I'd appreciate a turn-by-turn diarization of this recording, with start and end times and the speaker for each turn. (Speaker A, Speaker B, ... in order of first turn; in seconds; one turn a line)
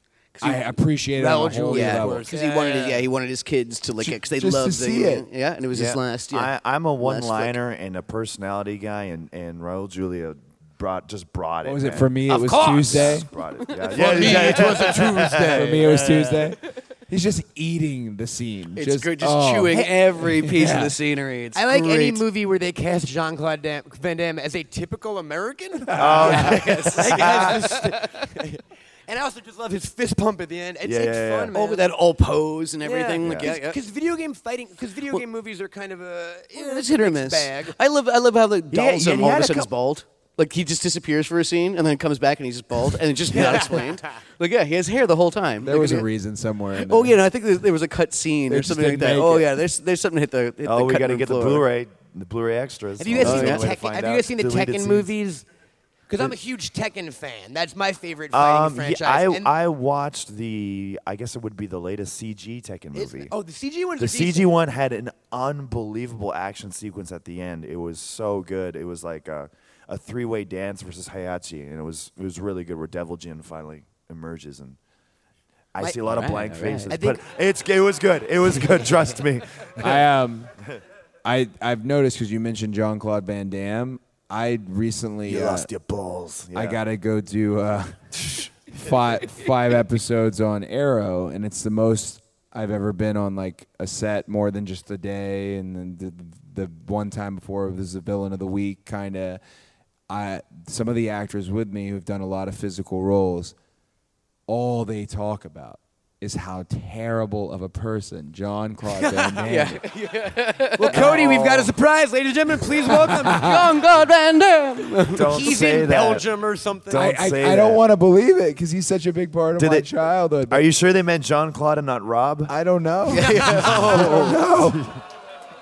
Speaker A: 0.4-2.2
Speaker B: 1.1-3.1
Speaker C: 1.7-7.6
Speaker A: 4.0-5.3
Speaker D: 5.7-12.2
Speaker A: 11.6-13.3
Speaker B: 12.3-13.2
Speaker D: 12.9-15.8
Speaker C: 13.6-14.7
Speaker B: 13.9-16.5
Speaker A: 15.5-20.9
Speaker C: 18.8-22.2
Speaker B: 21.6-31.9
Speaker D: 25.9-26.8
Speaker C: 26.2-28.2
Speaker D: 30.8-31.5
Speaker C: 31.5-33.8
Speaker B: 32.8-37.8
Speaker D: 33.2-33.5
Speaker C: 36.5-46.1
Speaker D: 38.7-39.7
Speaker B: 43.3-44.1
Speaker A: 45.6-47.2
Speaker C: 46.8-51.7
Speaker A: 48.5-49.5
Speaker D: 50.6-55.1
Speaker B: 53.0-55.5
Speaker C: 53.2-53.7
Speaker B: 56.1-59.5
Speaker D: 58.3-63.3
Speaker B: 62.9-64.5
Speaker D: 64.0-74.8
Speaker D: 75.7-80.0
Speaker C: 76.0-77.0
Speaker B: 76.9-77.2
Speaker A: 79.8-80.5
Speaker A: 81.2-85.7
Speaker D: 85.3-86.8
Speaker A: 86.5-99.4
Speaker A: 100.1-103.6
Speaker A: 104.5-109.8
Speaker B: 109.0-109.5
Speaker C: 109.4-111.1
Speaker B: 110.8-113.6
Speaker D: 110.9-111.7
Speaker A: 111.0-111.3
Speaker A: 112.9-113.7
Speaker C: 113.3-115.4
Speaker D: 115.1-116.3
Speaker B: 115.2-117.1
Speaker D: 116.9-117.8
Speaker A: 116.9-120.7
Speaker D: 119.6-119.9
Speaker D: 120.5-122.5
Speaker A: 122.5-124.8
Speaker C: 123.1-124.4
Speaker D: 123.8-125.0